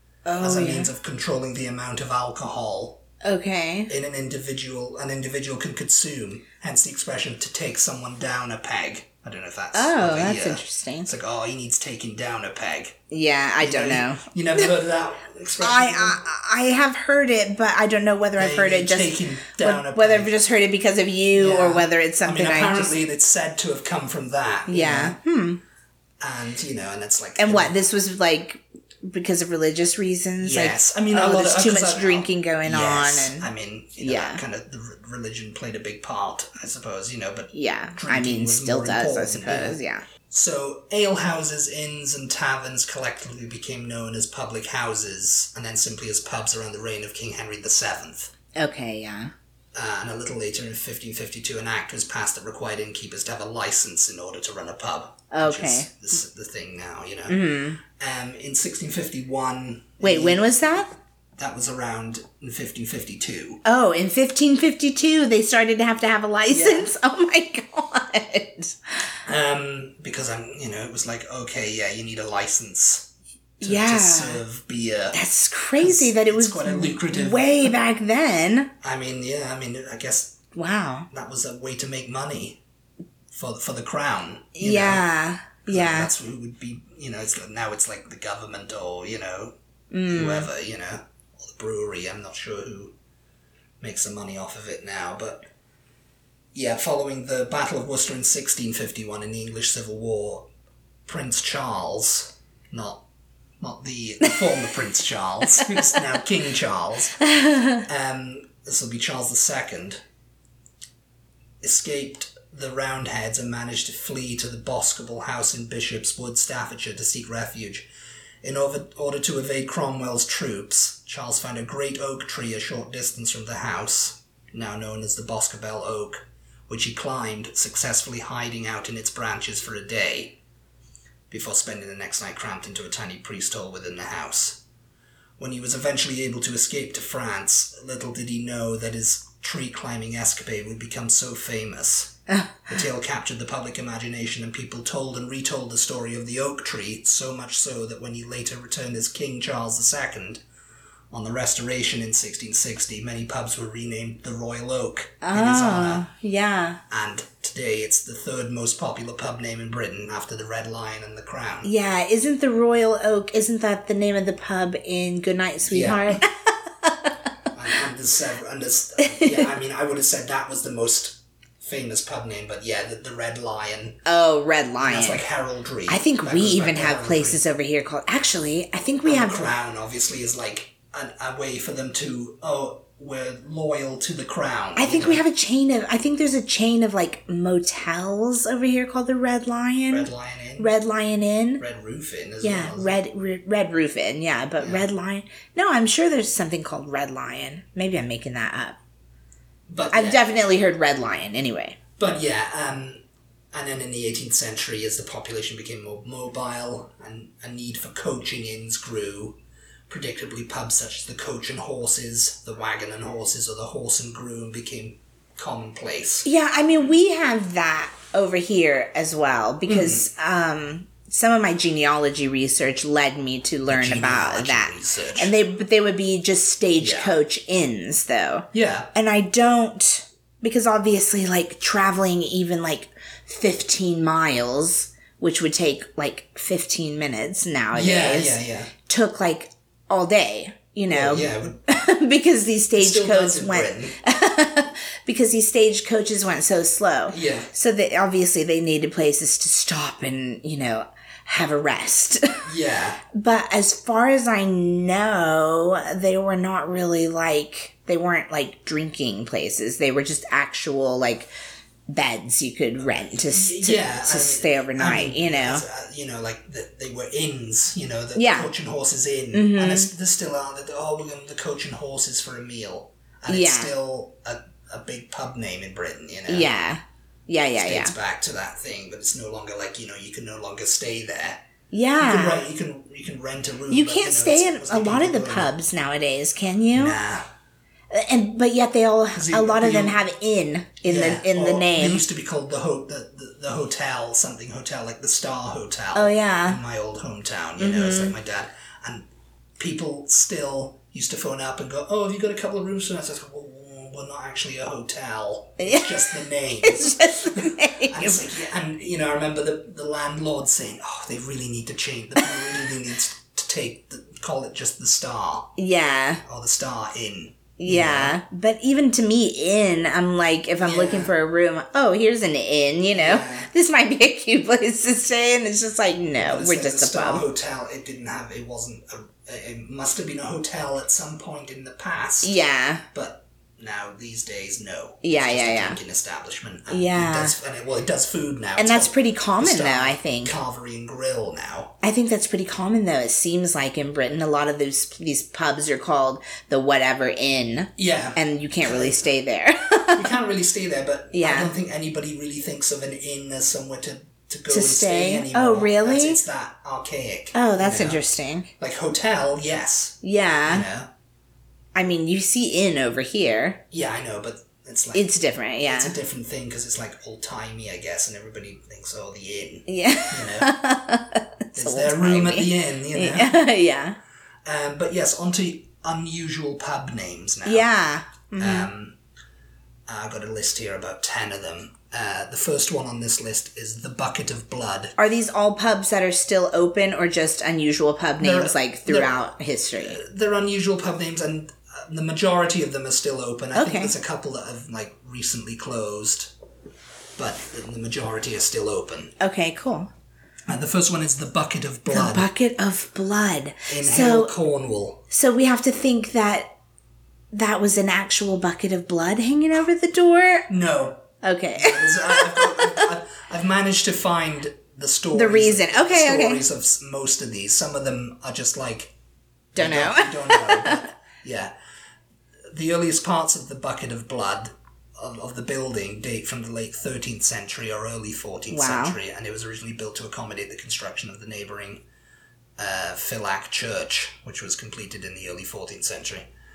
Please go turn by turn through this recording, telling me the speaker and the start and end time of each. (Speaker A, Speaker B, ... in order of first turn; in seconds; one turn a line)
Speaker A: 0.2-0.9
Speaker B: 0.4-3.0
Speaker A: 3.2-3.9
Speaker B: 3.9-13.0
Speaker A: 9.7-11.1
Speaker A: 13.1-14.7
Speaker B: 13.6-16.2
Speaker A: 15.6-22.9
Speaker B: 18.4-20.3
Speaker B: 21.3-25.2
Speaker A: 24.7-25.6
Speaker B: 26.2-27.7
Speaker A: 27.4-33.5
Speaker B: 30.4-39.8
Speaker A: 34.0-34.4
Speaker A: 37.5-40.0
Speaker B: 40.3-48.3
Speaker A: 48.5-49.3
Speaker B: 49.7-60.5
Speaker A: 55.3-55.9
Speaker A: 57.3-57.8
Speaker A: 60.0-60.9
Speaker B: 61.4-63.6
Speaker A: 63.6-68.8
Speaker B: 66.5-66.9
Speaker B: 69.2-75.2
Speaker A: 73.6-74.4
Speaker A: 75.1-78.7
Speaker B: 75.8-77.7
Speaker B: 78.8-80.4
Speaker A: 80.5-81.1
Speaker B: 81.1-82.6
Speaker B: 83.3-85.0
Speaker A: 84.6-86.1
Speaker B: 85.7-89.5
Speaker A: 89.9-90.5
Speaker B: 90.1-92.9
Speaker B: 93.8-95.5
Speaker B: 96.5-100.5
Speaker B: 101.0-103.0
Speaker B: 103.6-107.2
Speaker A: 105.5-105.9
Speaker A: 107.2-107.8
Speaker B: 107.8-110.0
Speaker B: 111.6-117.9
Speaker B: 118.4-130.4
Speaker B: 131.3-134.6
Speaker B: 135.4-142.2
Speaker A: 142.3-142.7
Speaker B: 142.7-150.4
Speaker B: 151.1-156.1
Speaker A: 155.2-156.8
Speaker B: 156.9-161.7
Speaker A: 161.6-167.1
Speaker B: 165.6-166.2
Speaker B: 167.5-174.0
Speaker A: 169.0-169.5
Speaker A: 174.1-175.2
Speaker B: 174.8-177.4
Speaker A: 175.9-179.4
Speaker B: 179.0-185.2
Speaker A: 184.8-191.6
Speaker B: 189.9-190.7
Speaker B: 191.6-193.0
Speaker A: 192.4-198.8
Speaker B: 194.6-194.9
Speaker B: 199.7-200.3
Speaker A: 199.9-201.8
Speaker B: 202.0-203.0
Speaker B: 203.5-209.4
Speaker B: 209.9-216.3
Speaker A: 216.2-252.4
Speaker B: 219.7-220.1
Speaker B: 223.7-225.3
Speaker B: 226.8-227.1
Speaker B: 228.5-228.9
Speaker B: 237.7-238.7
Speaker B: 240.9-241.6
Speaker B: 242.8-243.9
Speaker B: 247.1-247.5
Speaker B: 252.4-253.0
Speaker A: 253.1-261.3
Speaker A: 261.9-265.6
Speaker B: 263.2-276.5
Speaker A: 268.1-268.5
Speaker A: 269.3-269.9
Speaker A: 273.3-273.7
Speaker A: 276.3-277.9
Speaker B: 277.5-281.4
Speaker A: 281.7-282.4
Speaker B: 282.0-285.5
Speaker A: 283.7-287.0
Speaker B: 286.7-287.3
Speaker A: 287.9-292.0
Speaker B: 289.1-290.0
Speaker B: 290.8-299.1
Speaker A: 295.9-296.6
Speaker A: 297.6-298.1
Speaker B: 299.6-315.5
Speaker A: 305.6-308.2
Speaker A: 315.6-316.2
Speaker B: 316.2-318.2
Speaker A: 317.6-327.2
Speaker B: 320.6-321.1
Speaker B: 322.9-323.5
Speaker B: 326.2-332.3
Speaker A: 332.2-332.8
Speaker B: 332.9-341.7
Speaker A: 335.0-335.8
Speaker A: 336.7-337.3
Speaker A: 338.6-340.3
Speaker A: 341.8-350.1
Speaker B: 347.8-349.0
Speaker B: 349.9-358.0
Speaker A: 351.1-351.5
Speaker A: 354.5-356.2
Speaker A: 357.3-358.5
Speaker B: 358.6-360.9
Speaker A: 360.0-360.7
Speaker A: 361.7-363.6
Speaker B: 363.7-365.1
Speaker A: 364.9-365.9
Speaker B: 365.6-370.5
Speaker A: 369.7-374.0
Speaker B: 371.5-373.4
Speaker B: 374.4-377.7
Speaker A: 377.4-378.7
Speaker B: 378.4-378.9
Speaker B: 379.9-384.9
Speaker A: 385.0-390.0
Speaker B: 388.2-389.1
Speaker B: 389.8-396.3
Speaker A: 393.5-393.9
Speaker B: 397.2-399.1
Speaker A: 399.2-399.9
Speaker B: 400.5-402.3
Speaker A: 401.9-404.3
Speaker B: 403.7-405.0
Speaker A: 405.1-406.5
Speaker A: 407.3-410.5
Speaker B: 410.5-418.9
Speaker A: 411.2-412.9
Speaker A: 415.1-416.4
Speaker B: 419.5-421.5
Speaker A: 419.6-420.9
Speaker B: 422.5-431.8
Speaker A: 428.5-429.0
Speaker B: 432.6-436.3